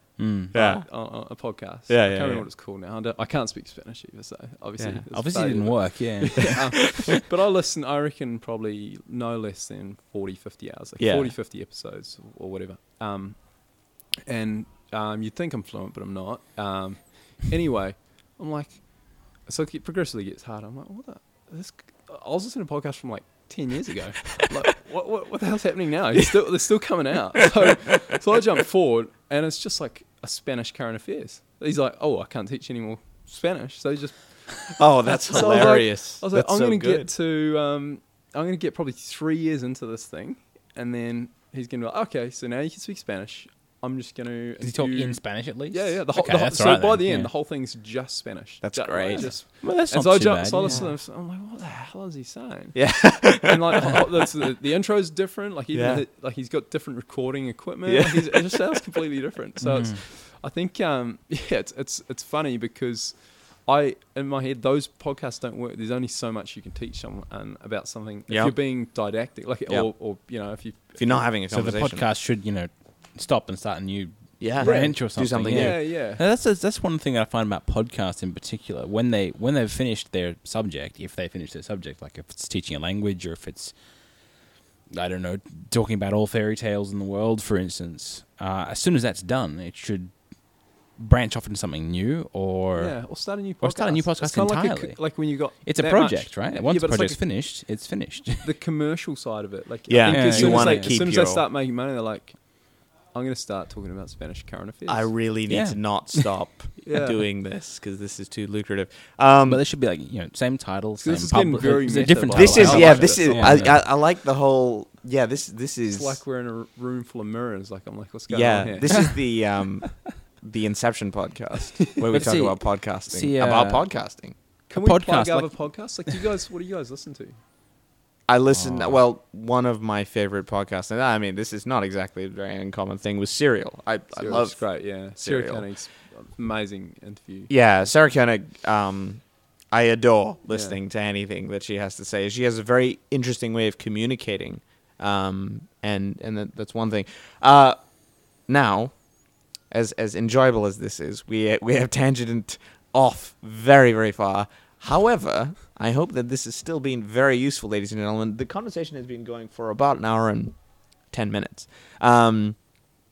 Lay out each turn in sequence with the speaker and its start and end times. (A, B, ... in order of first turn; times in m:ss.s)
0:00.2-0:00.5 A
0:00.5-1:11.3 B
0:00.5-0:02.5 C
0:04.8-0:05.0 C
0:05.1-0:06.9 A
0:11.0-0:11.3 C
0:34.8-0:37.1 C
0:44.6-0:47.3 A
0:48.6-0:49.4 C
0:49.1-0:50.8 A
0:50.6-0:50.9 C
0:52.7-0:54.0 C
0:55.7-0:56.0 C
0:57.8-0:58.7 C
0:59.6-1:00.0 A
1:08.3-1:08.9 C
1:09.7-1:12.0 C
1:11.5-1:24.2 A
1:14.4-1:15.8 C
1:14.6-1:16.2 B
1:24.9-1:38.5 A
1:32.8-1:37.4 B
1:38.4-1:45.2 B
1:39.9-1:41.4 C
1:40.1-1:41.0 A
1:44.9-1:49.6 C
1:45.5-1:46.4 A
1:46.8-1:47.2 B
1:49.4-1:53.8 A
1:51.0-1:53.8 B
1:52.3-1:56.2 C
1:55.9-1:59.5 B
1:58.3-2:04.3 C
2:02.1-2:04.0 A
2:04.7-2:07.4 B
2:04.7-2:06.2 A
2:08.3-2:15.7 C
2:08.5-2:09.0 A
2:14.1-2:17.9 B
2:17.5-2:42.7 C
2:20.5-2:20.8 B